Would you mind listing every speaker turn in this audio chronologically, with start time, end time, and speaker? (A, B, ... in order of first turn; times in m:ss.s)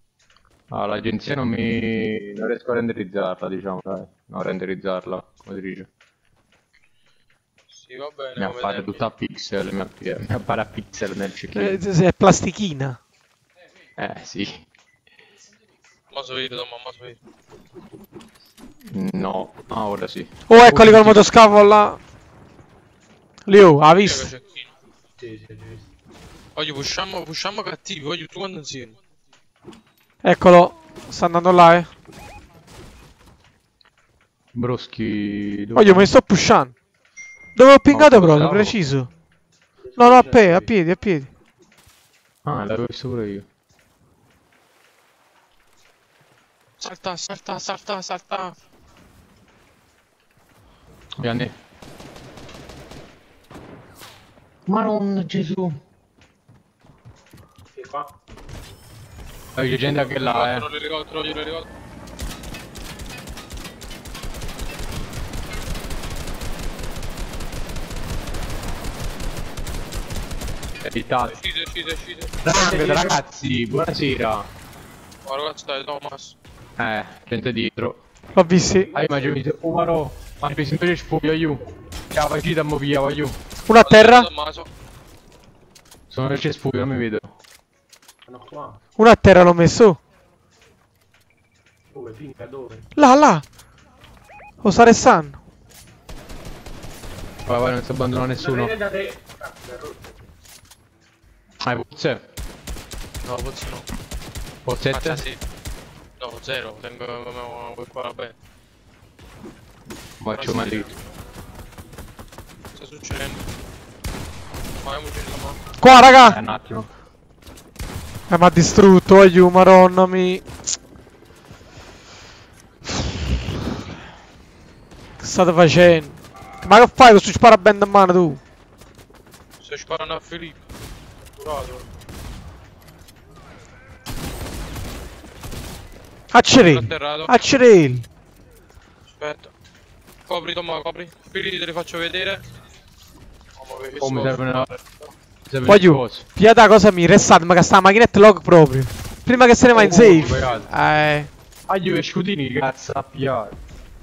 0:00.7-0:05.9 A
0:07.7-0:09.0 B
0:08.4-0:11.8 A
0:11.5-0:13.0 C
0:14.0-0:14.6 A
0:16.1-0:17.2 B
0:18.8-0:21.3 A
0:20.5-0:22.0 C
0:23.5-0:24.3 C
0:24.0-0:24.7 B
0:25.2-0:25.9 D
0:26.6-0:29.0 B
0:30.2-0:31.9 C
0:34.5-0:36.1 A
0:35.7-0:36.7 C
0:37.6-0:39.1 C
0:37.9-0:38.8 A
0:39.8-0:40.7 D
0:40.0-0:41.3 C
0:42.4-0:43.5 A
0:46.8-0:48.5 B
0:51.2-0:51.5 A
0:54.6-0:55.8 A
0:57.7-0:58.1 D
0:59.5-1:00.7 A
1:00.0-1:01.7 B
1:10.8-1:11.4 A
1:11.3-1:12.4 B
1:12.4-1:14.5 A
1:12.5-1:13.2 C
1:15.2-1:16.3 B
1:16.8-1:18.0 A
1:18.3-1:18.9 C
1:18.9-1:19.4 D
1:18.9-1:23.4 A
1:23.7-1:24.3 C
1:23.8-1:24.7 B
1:26.1-1:27.3 A
1:28.3-1:28.8 D
1:29.0-1:30.0 C
1:31.9-1:32.9 D
1:33.0-1:33.4 C
1:34.6-1:35.4 C
1:37.4-1:38.8 A
1:38.2-1:40.3 D
1:41.6-1:42.2 A
1:43.2-1:43.8 B
1:44.6-1:45.2 A
1:44.9-1:45.4 B
1:46.2-1:48.3 B
1:50.2-1:50.9 A
1:50.3-1:50.8 B
1:52.7-1:53.4 B
1:54.8-1:55.6 B
1:55.8-1:56.4 C
1:56.2-1:56.9 A
1:58.3-2:00.4 C
2:05.2-2:08.4 C
2:09.6-2:10.6 B
2:11.4-2:11.8 B
2:16.3-2:18.1 C
2:16.6-2:17.3 B
2:19.1-2:19.5 B
2:20.3-2:22.4 B
2:23.6-2:24.7 B
2:24.0-2:24.8 A
2:25.5-2:26.2 A
2:25.6-2:31.3 C
2:29.7-2:30.6 A
2:30.3-2:30.6 D
2:31.7-2:33.6 A